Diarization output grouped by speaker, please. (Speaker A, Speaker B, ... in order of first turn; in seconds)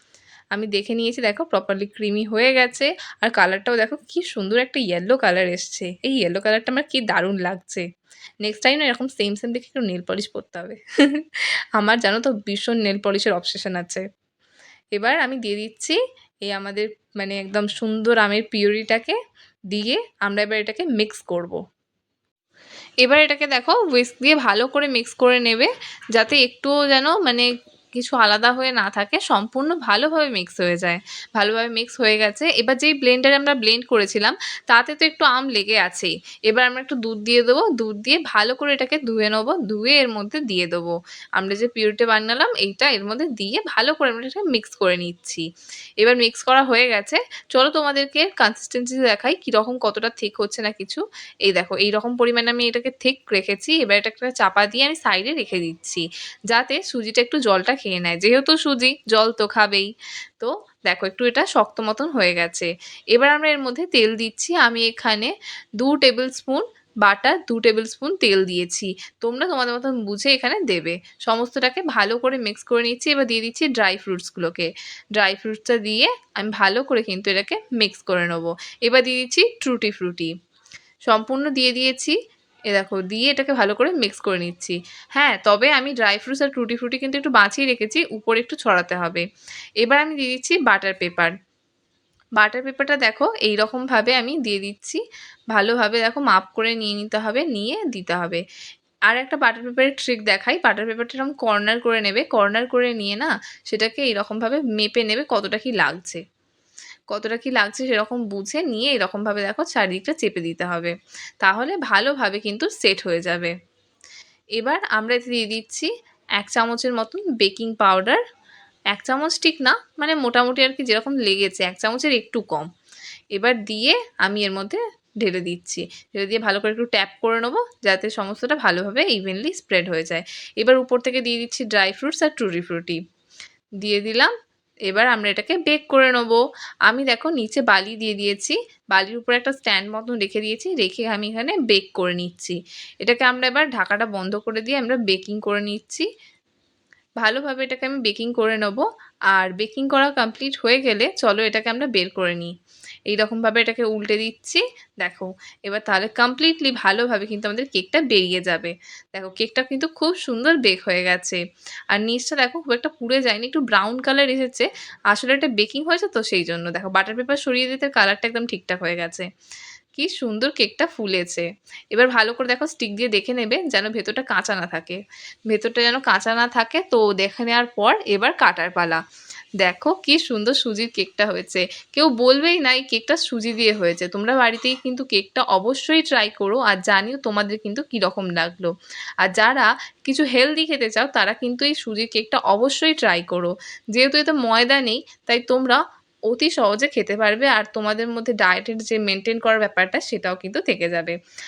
Speaker A: 0.5-7.8, 8.4-14.0, 15.0-19.2, 19.7-21.6, 23.0-45.4, 46.0-80.3, 81.1-82.2, 82.7-89.2, 89.8-91.3, 92.4-98.4, 99.1-106.2, 107.1-113.5, 114.6-118.2, 118.9-122.7, 123.3-133.0, 133.8-134.3, 134.9-146.1, 147.2-152.5, 153.1-161.4, 161.9-169.3, 170.0-179.0, 179.6-188.7, 189.2-201.1